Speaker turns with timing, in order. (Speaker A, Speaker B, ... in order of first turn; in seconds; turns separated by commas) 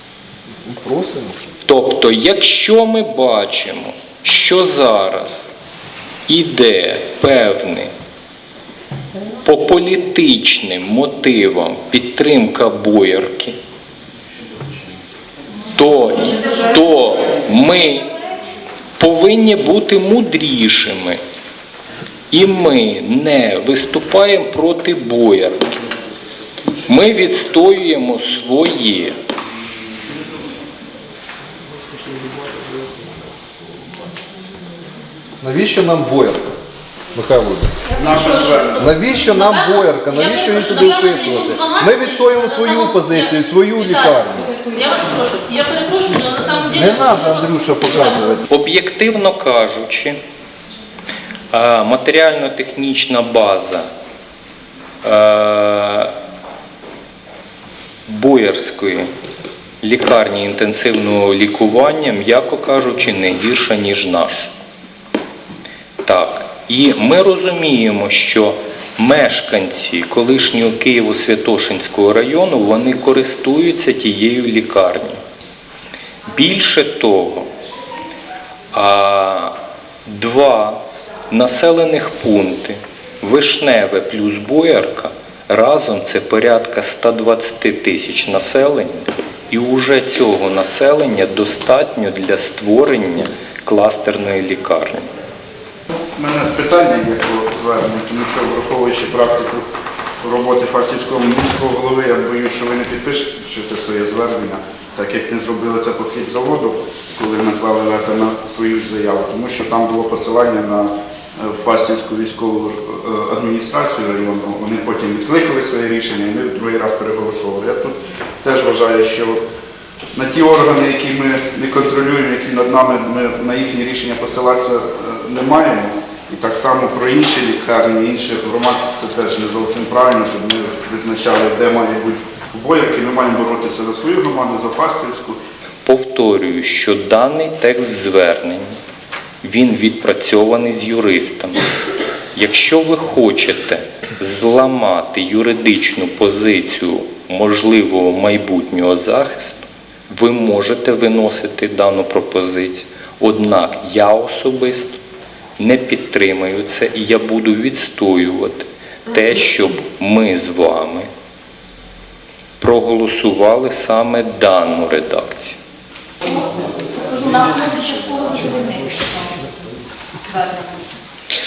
Speaker A: 0.6-1.4, Speaker B: 1.7-5.4, Speaker B: 6.3-7.9, Speaker B: 9.4-13.6, Speaker B: 15.7-18.1, Speaker C: 16.3-18.6, Speaker B: 19.0-21.2, Speaker B: 22.3-25.6, Speaker B: 26.9-29.2, Speaker A: 35.4-36.5, Speaker A: 37.1-37.7, Speaker D: 37.9-48.4, Speaker E: 38.0-38.9, Speaker A: 38.8-44.5, Speaker A: 46.7-48.4, Speaker B: 48.5-50.2, Speaker B: 51.5-53.9, Speaker B: 55.0-56.1, Speaker B: 58.1-59.1, Speaker B: 59.8-64.5, Speaker B: 66.0-75.2, Speaker B: 76.3-77.5, Speaker B: 78.7-95.1, Speaker E: 96.1-99.6, Speaker E: 100.2-119.4, Speaker E: 120.1-135.4, Speaker B: 135.8-138.8, Speaker B: 139.4-141.6, Speaker B: 142.3-155.0, Speaker B: 155.6-161.1, Speaker B: 162.6-165.6, Speaker C: 166.2-169.4, Speaker C: 170.2-170.9